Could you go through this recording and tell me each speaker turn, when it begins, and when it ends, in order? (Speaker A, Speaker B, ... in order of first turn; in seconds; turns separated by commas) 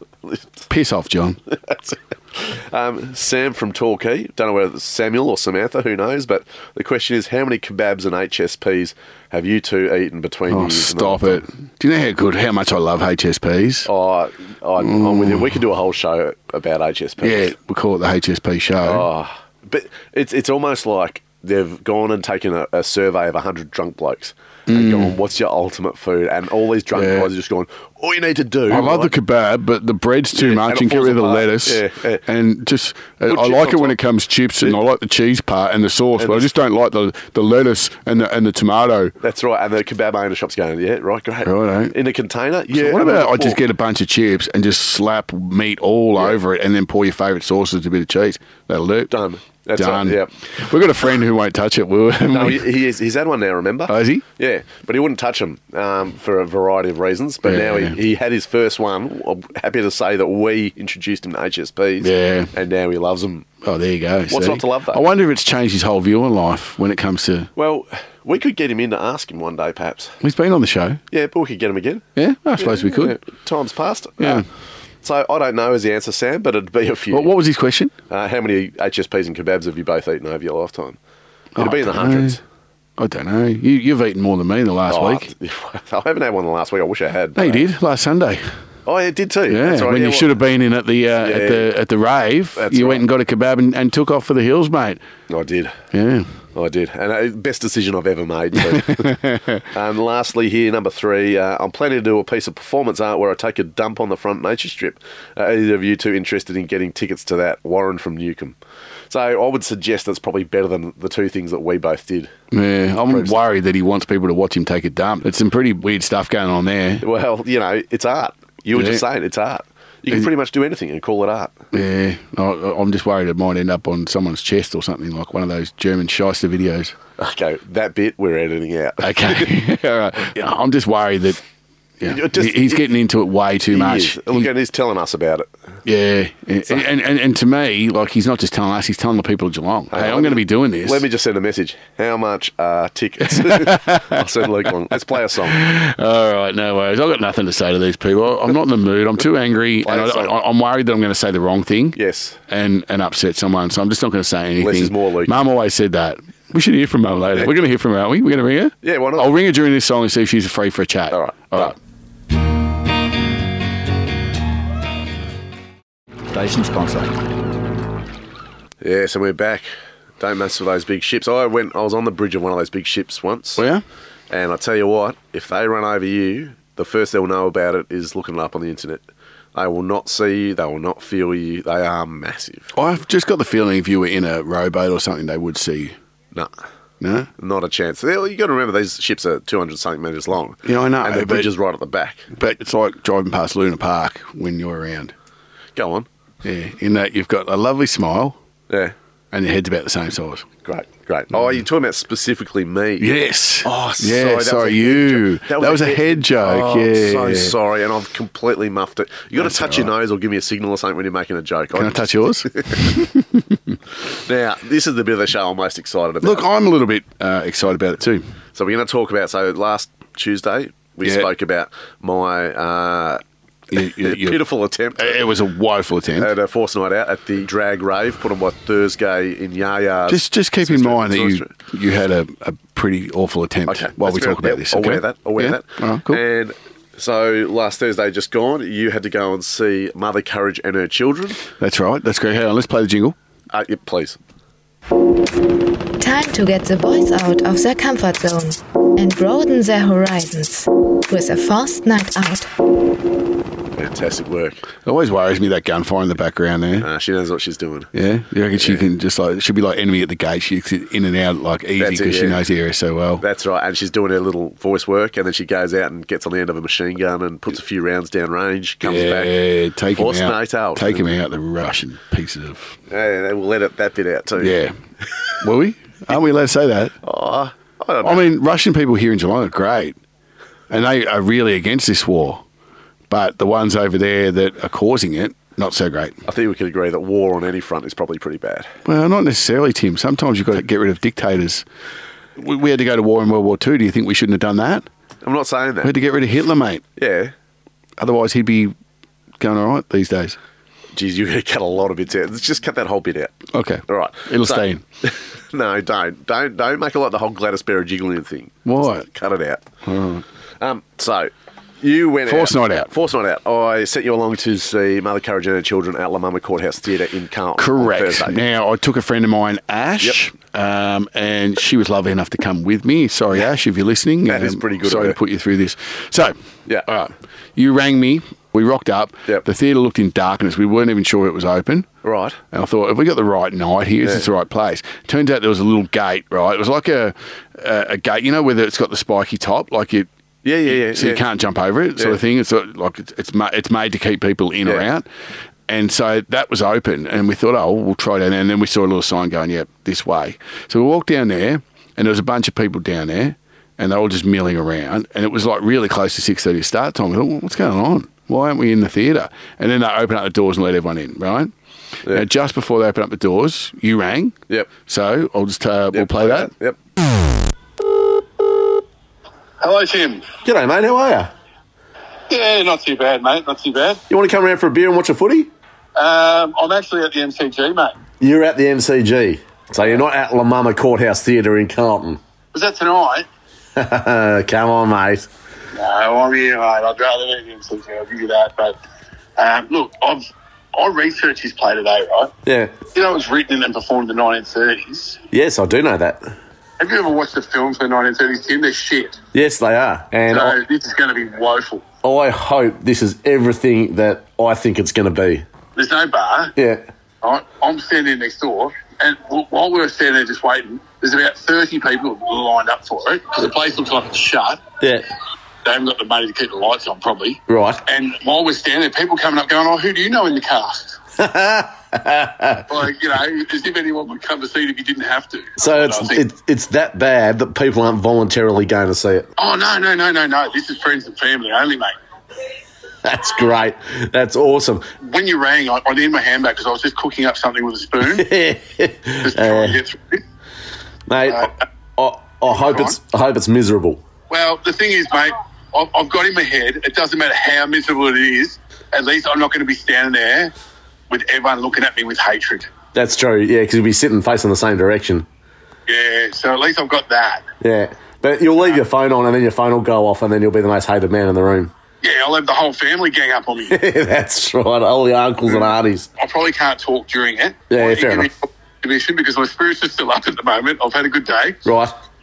Speaker A: 0.7-1.4, Speaker B: 1.7-11.4, Speaker A: 10.5-13.9, Speaker B: 13.8-17.5, Speaker A: 14.8-15.6, Speaker A: 17.2-19.1, Speaker B: 18.8-29.1, Speaker A: 24.7-25.1, Speaker A: 26.9-27.3, Speaker A: 28.7-39.1, Speaker B: 30.4-32.2, Speaker B: 33.3-34.0, Speaker B: 36.2-36.5, Speaker B: 39.2-43.6, Speaker A: 41.4-42.0, Speaker A: 42.7-49.1, Speaker B: 49.1-50.3, Speaker A: 49.7-52.7, Speaker B: 52.3-63.5, Speaker A: 53.9-54.2, Speaker A: 57.4-58.0, Speaker A: 62.0-62.5, Speaker A: 63.6-67.5, Speaker B: 64.3-65.0, Speaker B: 67.5-70.1, Speaker A: 70.2-71.0, Speaker B: 71.1-72.0, Speaker A: 72.2-73.2, Speaker B: 72.6-74.4, Speaker A: 74.2-74.5, Speaker B: 75.0-77.3, Speaker A: 77.1-77.9, Speaker B: 78.1-81.0, Speaker A: 81.5-82.4, Speaker B: 81.6-82.4, Speaker A: 83.0-85.3, Speaker B: 84.9-87.7, Speaker A: 87.3-88.5, Speaker B: 88.8-90.3, Speaker A: 89.5-95.0, Speaker B: 91.2-91.7, Speaker B: 92.5-93.0, Speaker B: 95.3-95.8, Speaker A: 95.9-96.3, Speaker B: 96.5-99.2, Speaker A: 98.6-99.6, Speaker B: 99.7-108.6, Speaker B: 109.1-112.3, Speaker A: 112.5-117.0, Speaker B: 113.1-113.3, Speaker B: 117.0-121.5, Speaker A: 118.7-119.0, Speaker A: 121.7-126.9, Speaker B: 127.2-129.5, Speaker A: 129.0-131.4, Speaker A: 132.0-134.5, Speaker B: 132.0-132.8, Speaker B: 133.7-135.5, Speaker A: 135.8-141.0, Speaker B: 139.9-145.6, Speaker A: 143.3-144.2, Speaker A: 145.4-152.0, Speaker B: 149.8-150.3, Speaker B: 151.9-152.4, Speaker A: 152.5-161.8, Speaker B: 154.6-155.3, Speaker B: 158.8-159.3, Speaker B: 161.1-161.7, Speaker B: 168.8-169.7, Speaker B: 170.2-173.6, Speaker A: 173.6-173.8, Speaker B: 174.3-179.0, Speaker B: 179.5-182.7, Speaker A: 182.7-185.9, Speaker A: 187.0-187.3, Speaker B: 187.4-192.3, Speaker A: 190.6-191.5, Speaker A: 192.3-195.1, Speaker B: 195.8-196.1, Speaker A: 196.4-198.4, Speaker B: 198.7-198.9, Speaker A: 199.3-200.5, Speaker B: 200.6-203.1, Speaker A: 203.0-207.6, Speaker B: 203.6-213.0, Speaker A: 209.4-209.9, Speaker A: 211.7-213.8, Speaker B: 214.1-216.4, Speaker A: 216.2-218.3, Speaker B: 218.5-223.2, Speaker A: 221.0-221.3, Speaker A: 223.7-224.4, Speaker B: 223.8-225.2, Speaker A: 224.9-226.3, Speaker B: 226.2-231.5, Speaker A: 230.1-236.2, Speaker B: 233.7-241.4, Speaker A: 241.6-243.2, Speaker B: 243.5-244.2, Speaker C: 246.0-252.5, Speaker B: 253.8-254.7, Speaker A: 254.8-256.9, Speaker B: 256.8-257.9, Speaker A: 257.9-263.2, Speaker B: 258.6-258.9, Speaker B: 261.8-262.4, Speaker B: 263.2-269.4, Speaker A: 268.8-272.8, Speaker B: 269.9-271.1, Speaker B: 272.9-274.6, Speaker A: 274.4-274.7, Speaker A: 275.4-276.9, Speaker B: 277.0-278.3, Speaker A: 278.0-280.0, Speaker A: 280.7-282.4, Speaker A: 283.1-286.2, Speaker B: 286.2-288.7, Speaker A: 288.8-291.6, Speaker A: 292.4-294.9, Speaker B: 295.2-295.9, Speaker A: 295.8-296.8, Speaker B: 297.0-297.3, Speaker A: 298.0-298.7, Speaker A: 299.4-300.4, Speaker B: 300.9-309.6, Speaker A: 303.5-304.8, Speaker A: 308.6-309.1, Speaker A: 309.8-310.2, Speaker B: 310.6-318.4, Speaker A: 312.3-312.9, Speaker A: 317.6-326.3, Speaker B: 324.3-325.2, Speaker A: 326.9-331.9, Speaker B: 332.0-332.4, Speaker A: 332.5-340.1, Speaker B: 340.4-341.2, Speaker A: 340.6-345.1, Speaker A: 345.7-361.5, Speaker A: 362.1-366.5, Speaker B: 365.9-366.8, Speaker D: 369.6-370.3, Speaker B: 370.4-371.3, Speaker D: 372.3-374.0, Speaker B: 374.1-375.5, Speaker D: 375.9-377.9, Speaker B: 378.2-382.2, Speaker D: 382.5-383.2, Speaker B: 383.8-385.3, Speaker D: 385.7-388.8, Speaker D: 389.4-392.3, Speaker B: 392.4-392.7, Speaker D: 392.9-395.2, Speaker B: 395.3-396.2, Speaker D: 396.8-399.2, Speaker B: 399.3-400.6, Speaker D: 400.3-401.8, Speaker B: 402.0-405.4, Speaker D: 405.8-406.5, Speaker B: 406.6-406.8, Speaker D: 407.2-414.6, Speaker D: 415.6-421.0, Speaker B: 417.5-417.8, Speaker B: 421.2-422.6, Speaker D: 422.7-426.2, Speaker B: 425.6-429.3, Speaker D: 429.4-431.9, Speaker B: 433.0-434.9, Speaker D: 435.0-438.2, Speaker B: 438.0-439.8, Speaker D: 439.2-440.2, Speaker B: 441.1-444.0, Speaker D: 442.5-443.0, Speaker D: 444.3-450.5, Speaker D: 451.1-452.7, Speaker B: 452.9-455.2, Speaker D: 455.9-457.4, Speaker B: 457.6-461.7, Speaker D: 462.0-463.8, Speaker B: 463.7-466.1, Speaker D: 465.5-471.6, Speaker B: 467.7-468.3, Speaker B: 471.6-471.9